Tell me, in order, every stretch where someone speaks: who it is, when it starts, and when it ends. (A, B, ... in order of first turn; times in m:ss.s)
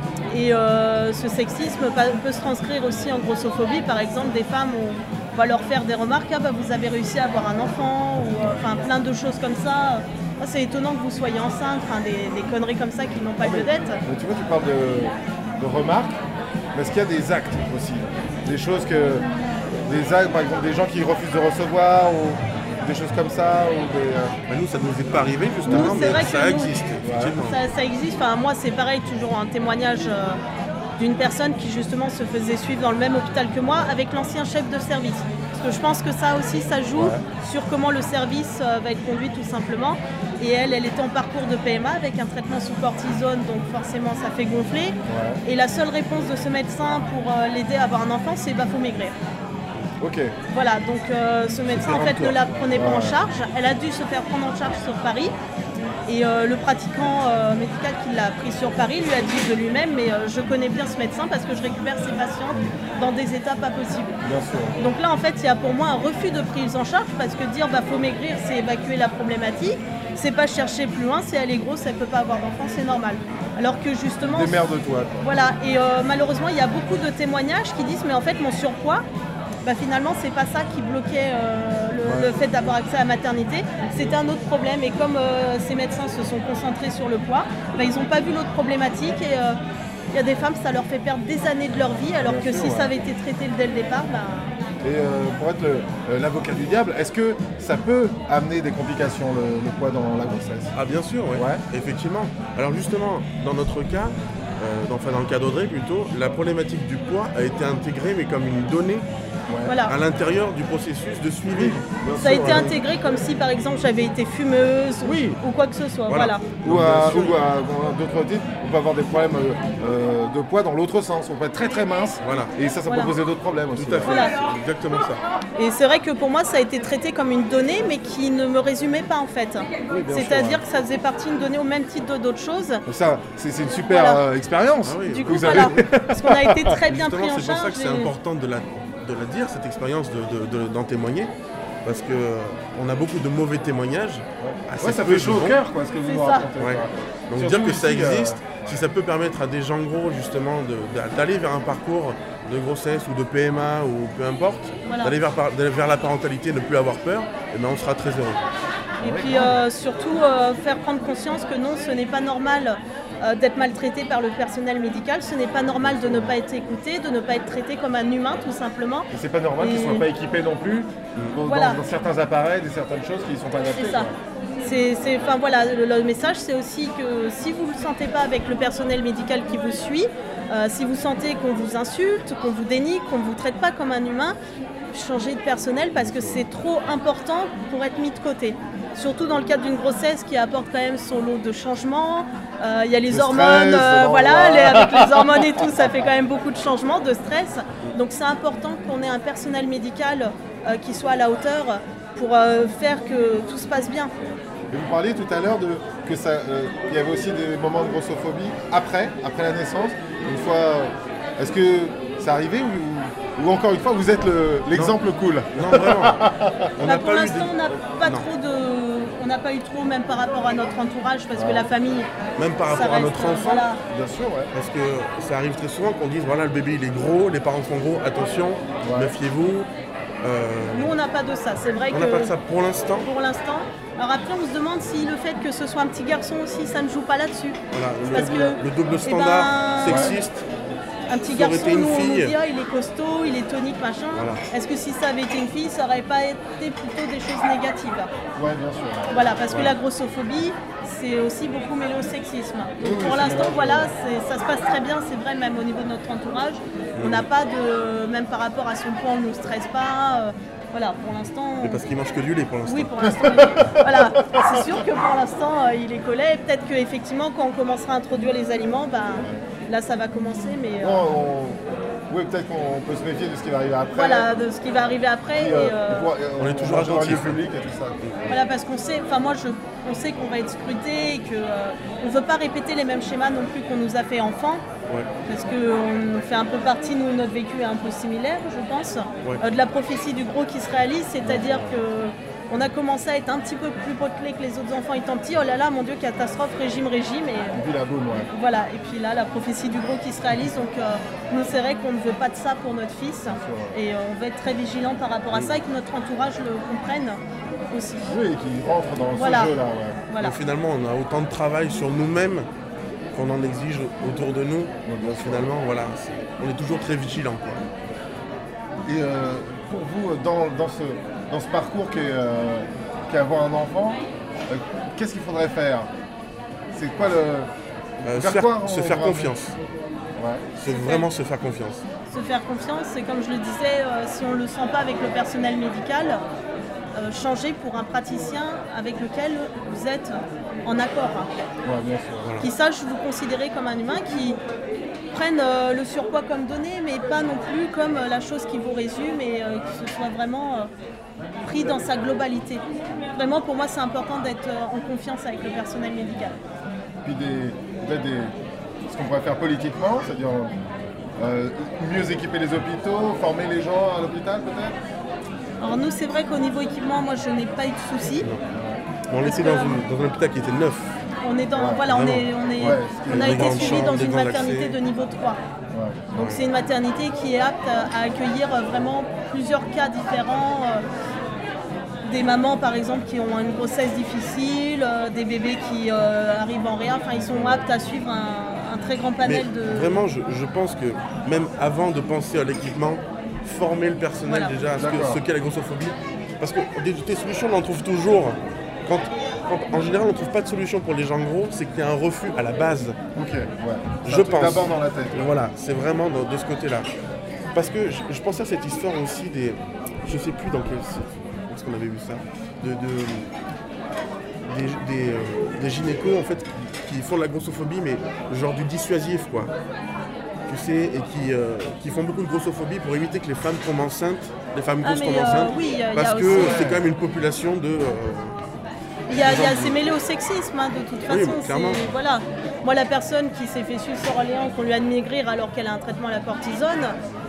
0:00.3-0:14.0 A
0:13.4-0:16.2 B
0:16.7-0:19.3 B
0:19.9-0:24.4 B
0:24.5-0:27.6 C
0:25.6-0:26.4 B
0:25.7-0:26.8 A
0:27.0-0:27.4 B
0:27.4-0:30.4 A
0:31.0-0:49.2 A
0:36.9-0:37.2 B
0:45.1-0:45.4 B
0:50.0-0:50.4 B
0:50.5-0:55.4 A
0:51.7-0:52.4 C
0:52.7-0:53.2 B
0:56.1-1:04.2 A
1:04.2-1:04.8 B
1:04.8-1:14.6 A
1:14.2-1:15.3 B
1:15.2-1:19.1 A
1:19.6-1:29.6 A
1:22.0-1:22.4 B
1:30.1-1:34.6 A
1:32.2-1:33.0 B
1:34.8-1:40.8 B
1:40.8-1:49.1 C
1:41.3-1:41.6 B
1:49.5-1:49.8 B
1:49.6-1:50.0 A
1:49.9-1:52.8 C
1:51.4-1:52.8 B
1:52.2-1:56.6 A
1:55.0-1:55.4 B
1:56.1-1:57.4 C
1:56.6-2:04.2 B
2:02.2-2:02.5 C
2:02.9-2:03.1 A
2:03.8-2:05.2 C
2:04.0-2:04.4 A
2:05.6-2:12.8 A
2:09.9-2:10.6 B
2:12.9-2:16.8 B
2:13.9-2:14.2 A
2:14.9-2:15.7 C
2:15.1-2:18.1 A
2:16.9-2:21.3 C
2:21.8-2:25.6 C
2:24.4-2:28.9 B
2:26.0-2:26.5 A
2:26.6-2:38.4 C
2:34.8-2:35.2 A
2:39.0-2:39.6 B
2:39.0-2:50.0 A
2:45.8-2:46.4 B
2:49.1-2:54.2 B
2:51.4-2:51.8 A
2:53.7-3:04.4 A
3:04.9-3:24.1 A
3:06.0-3:06.5 B
3:13.1-3:15.9 B
3:24.7-3:36.7 B
3:34.7-3:35.0 C
3:35.5-3:36.2 C
3:36.8-3:38.3 C
3:36.8-3:42.1 A
3:41.3-3:41.7 B
3:42.4-3:43.6 C
3:42.7-3:43.8 A
3:43.9-3:44.5 B
3:44.5-3:49.7 C
3:48.8-3:49.2 B
3:50.2-3:50.9 C
3:50.7-3:52.3 A
3:51.9-3:53.1 C
3:53.0-4:00.1 A
3:57.7-4:00.5 C
3:59.8-4:00.2 B
4:01.1-4:08.1 A
4:01.3-4:02.3 C
4:04.1-4:04.5 C
4:08.4-4:09.2 B
4:09.1-4:21.8 A
4:12.8-4:13.9 B
4:17.0-4:17.3 C
4:21.6-4:23.1 C
4:22.7-4:31.1 A
4:23.0-4:24.8 B
4:29.2-4:29.4 B
4:30.8-4:34.3 B
4:33.9-4:36.1 A
4:35.3-4:38.4 B
4:36.4-4:38.4 C
4:38.3-4:44.6 A
4:45.3-4:57.6 A
4:51.3-4:51.7 B
4:51.3-4:51.6 C
4:57.5-4:58.3 B
4:58.3-5:08.2 A
5:03.3-5:03.8 B
5:05.3-5:05.6 C
5:08.1-5:10.0 B
5:09.2-5:09.6 A
5:10.1-5:10.4 A
5:10.2-5:12.5 C
5:13.1-5:17.6 C
5:14.8-5:15.5 B
5:18.8-5:25.9 B
5:26.7-5:27.5 B
5:28.0-5:29.3 B
5:28.0-5:29.6 C
5:30.2-5:30.5 B
5:30.6-5:31.9 C
5:30.6-5:31.1 A
5:32.1-5:36.2 A
5:36.9-5:41.3 A
5:41.6-5:42.4 B
5:42.4-5:44.4 A
5:45.1-5:50.7 A
5:51.4-5:56.4 A
5:57.0-5:58.4 B
5:58.9-6:00.6 B
6:01.2-6:04.8 B
6:05.6-6:08.3 A
6:08.5-6:08.8 B
6:09.1-6:10.9 C
6:09.2-6:09.8 A
6:11.2-6:15.4 A
6:11.6-6:11.9 B
6:11.8-6:14.8 C
6:12.6-6:14.0 B
6:15.7-6:16.3 B
6:16.2-6:16.4 C
6:16.2-6:20.8 A
6:22.0-6:30.0 A
6:27.1-6:27.6 B
6:29.2-6:43.0 C
6:34.3-6:34.6 A
6:34.8-6:35.2 B
6:43.2-6:45.4 B
6:44.0-6:46.9 C
6:47.5-6:53.3 C
6:54.4-6:59.5 C
7:00.5-7:08.4 C
7:04.8-7:06.7 A
7:06.3-7:06.8 B
7:09.1-7:17.0 A
7:09.1-7:09.9 C
7:11.0-7:11.9 C